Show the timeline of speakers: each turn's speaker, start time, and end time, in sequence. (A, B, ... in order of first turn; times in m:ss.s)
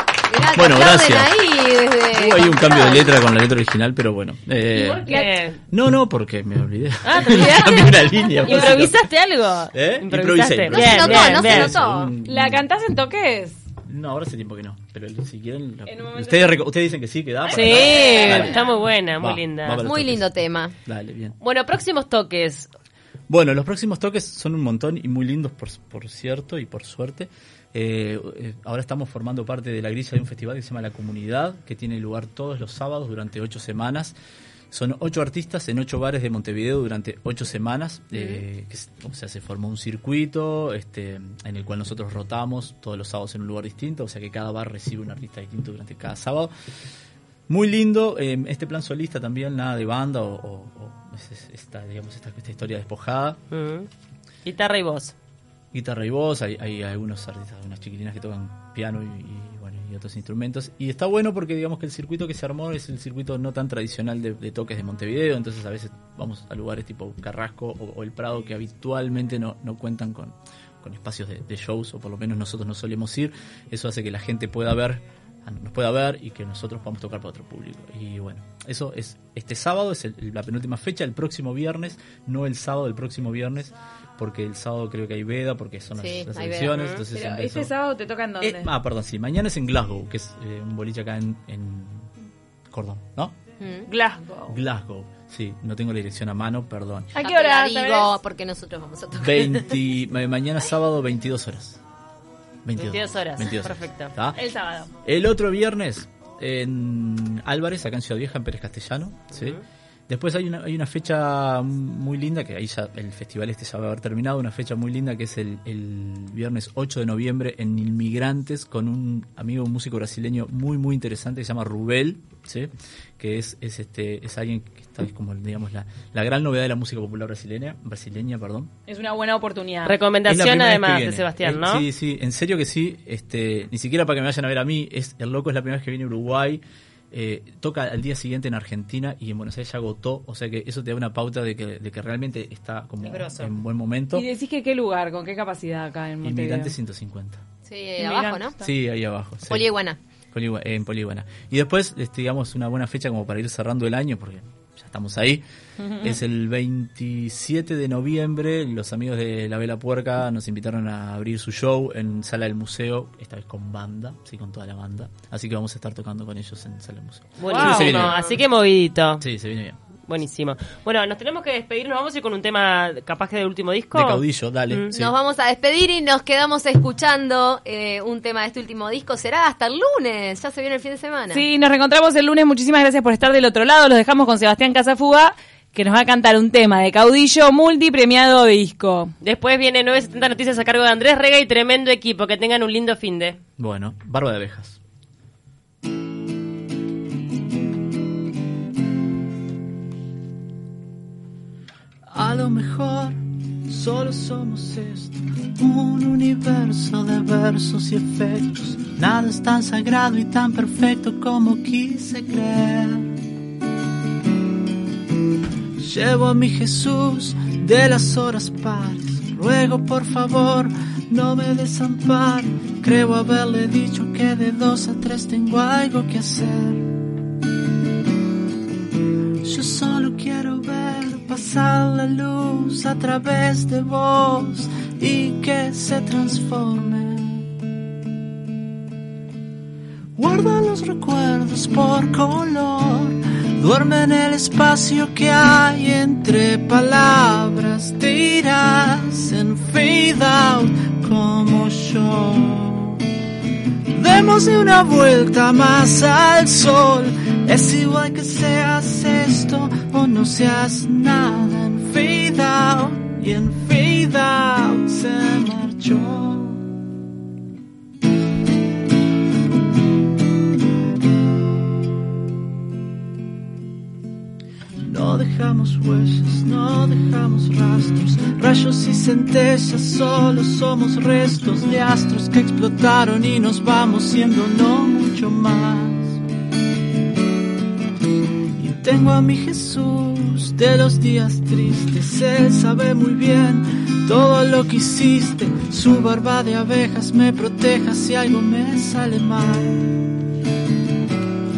0:00.3-0:03.2 A
0:00.5-0:01.4 B
0:02.1-0:05.1 B
0:04.7-0:05.3 C
0:05.1-0:05.6 D
0:05.7-0:08.9 B
0:07.0-0:11.8 D
0:07.2-0:08.9 C
0:09.7-0:12.6 B
0:10.7-0:12.1 A
0:12.2-0:13.6 C
0:13.8-0:18.6 B
0:15.9-0:16.6 C
0:17.4-0:18.7 C
0:17.5-0:19.8 D
0:17.9-0:18.6 A
0:19.2-0:21.4 B
0:19.8-0:20.8 A
0:21.4-0:22.7 D
0:23.3-0:34.2 B
0:34.7-0:46.5 B
0:38.1-0:38.4 A
0:47.5-0:53.4 B
0:53.5-0:53.9 D
0:54.4-0:55.1 D
0:55.7-1:27.7 B
1:26.0-1:26.8 A
1:26.7-1:27.0 D
1:27.1-1:28.7 C
1:28.4-1:32.1 B
1:32.7-1:33.4 B
1:33.6-1:33.9 A
1:33.9-1:34.6 C
1:34.5-1:37.1 B
1:37.1-1:38.2 C
1:37.2-1:39.9 A
1:39.2-1:41.8 B
1:42.6-1:44.4 B
1:42.8-1:44.1 D
1:44.4-1:44.9 C
1:45.0-2:08.7 B
1:49.3-1:49.6 D
2:08.9-2:10.0 C
2:09.8-2:11.8 D
2:10.3-2:24.3 B
2:23.0-2:23.6 D
2:24.1-2:26.8 C
2:26.2-2:27.4 B
2:27.6-2:28.6 A
2:28.0-2:28.7 C
2:28.6-2:29.7 B
2:29.5-2:30.0 A
2:30.3-2:35.4 B
2:35.8-2:36.2 C
2:36.0-2:48.2 B
2:47.4-2:49.2 D
2:47.4-2:48.4 C
2:49.2-2:49.8 B
2:50.1-2:54.9 D
2:53.9-2:55.1 B
2:54.9-3:01.4 A
3:01.3-3:09.1 C
3:09.2-3:13.4 D
3:13.6-3:14.8 B
3:22.1-3:33.2 B
3:35.8-3:46.9 B
3:49.4-3:57.5 B
4:00.2-4:13.1 B
4:13.9-4:26.6 B
4:34.8-4:46.2 B
4:48.6-5:00.0 B